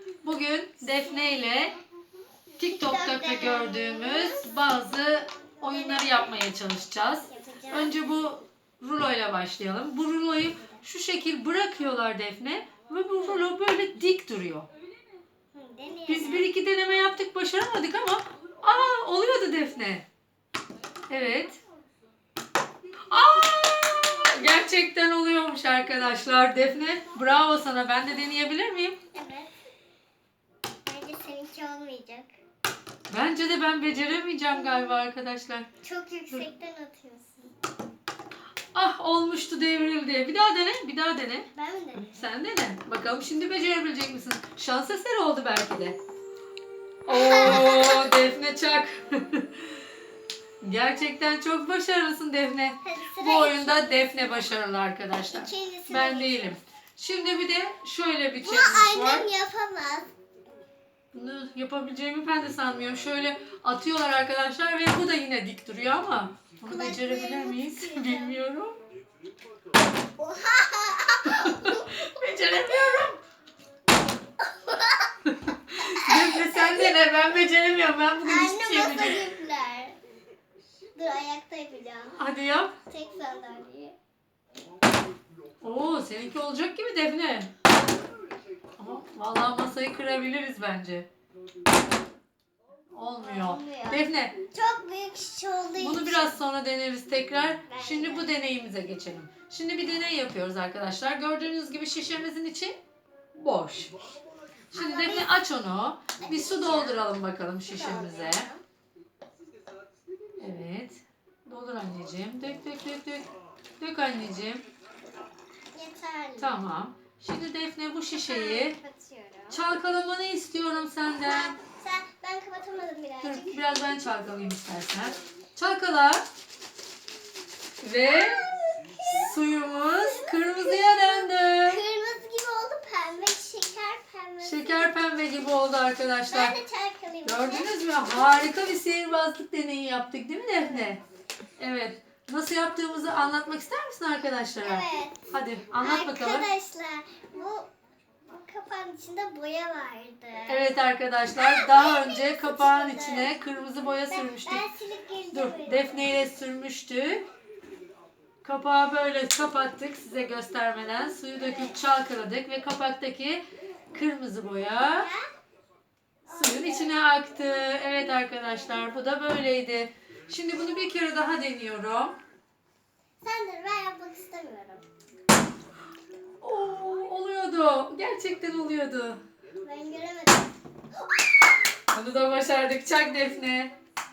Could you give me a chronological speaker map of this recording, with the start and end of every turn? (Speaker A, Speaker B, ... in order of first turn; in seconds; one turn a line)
Speaker A: 0.2-1.8
Speaker A: 2.6-14.7
Speaker B: 2.6-4.7
Speaker B: 5.5-6.4
Speaker B: 7.3-8.1
Speaker B: 13.2-13.5
Speaker B: 15.5-16.5
Speaker A: 16.1-20.1
Speaker A: 21.1-21.6
Speaker A: 23.1-29.0
Speaker B: 29.1-29.5
Speaker B: 30.8-32.3
Speaker A: 33.1-35.7
Speaker B: 34.5-35.0
Speaker B: 35.8-37.5
Speaker A: 38.7-41.5
Speaker B: 41.5-42.3
Speaker A: 42.1-46.0
Speaker A: 47.1-49.8
Speaker B: 47.1-48.1
Speaker A: 50.6-59.3
Speaker B: 52.8-54.3
Speaker B: 55.3-56.6
Speaker B: 58.4-60.1
Speaker A: 61.1-68.8
Speaker B: 66.7-68.4
Speaker B: 70.2-73.1
Speaker A: 71.3-73.2
Speaker B: 74.4-75.1
Speaker A: 75.5-79.3
Speaker B: 75.8-77.0
Speaker B: 78.2-80.0
Speaker B: 81.0-82.3
Speaker A: 82.2-82.7
Speaker B: 82.9-84.0
Speaker A: 85.6-87.5
Speaker A: 88.8-91.1
Speaker A: 92.9-94.3
Speaker B: 93.2-96.4
Speaker A: 95.8-102.8
Speaker B: 97.7-98.3
Speaker A: 103.3-103.9
Speaker A: 104.7-108.5
Speaker B: 104.7-105.5
Speaker B: 106.2-107.1
Speaker B: 107.7-108.6
Speaker A: 110.4-114.7
Speaker B: 115.7-116.7
Speaker A: 116.4-118.8
Speaker B: 118.1-119.6
Speaker A: 119.5-121.6
Speaker B: 121.1-123.7
Speaker A: 123.2-126.2
Speaker A: 127.8-128.4
Speaker B: 128.0-135.0
Speaker A: 129.0-131.8
Speaker A: 134.4-136.6
Speaker B: 136.3-138.0
Speaker A: 137.2-141.0
Speaker B: 140.5-141.0
Speaker A: 141.6-146.5
Speaker B: 144.6-145.2
Speaker B: 145.8-147.7
Speaker B: 148.3-150.7
Speaker A: 150.5-154.7
Speaker B: 151.3-153.4
Speaker B: 154.1-156.2
Speaker A: 155.3-157.2
Speaker A: 158.4-163.4
Speaker B: 161.4-161.8
Speaker A: 163.9-165.1
Speaker B: 164.9-165.3
Speaker B: 166.3-167.0
Speaker A: 166.3-172.2
Speaker B: 173.2-174.8
Speaker A: 176.4-179.2
Speaker B: 179.6-180.5
Speaker A: 181.9-183.7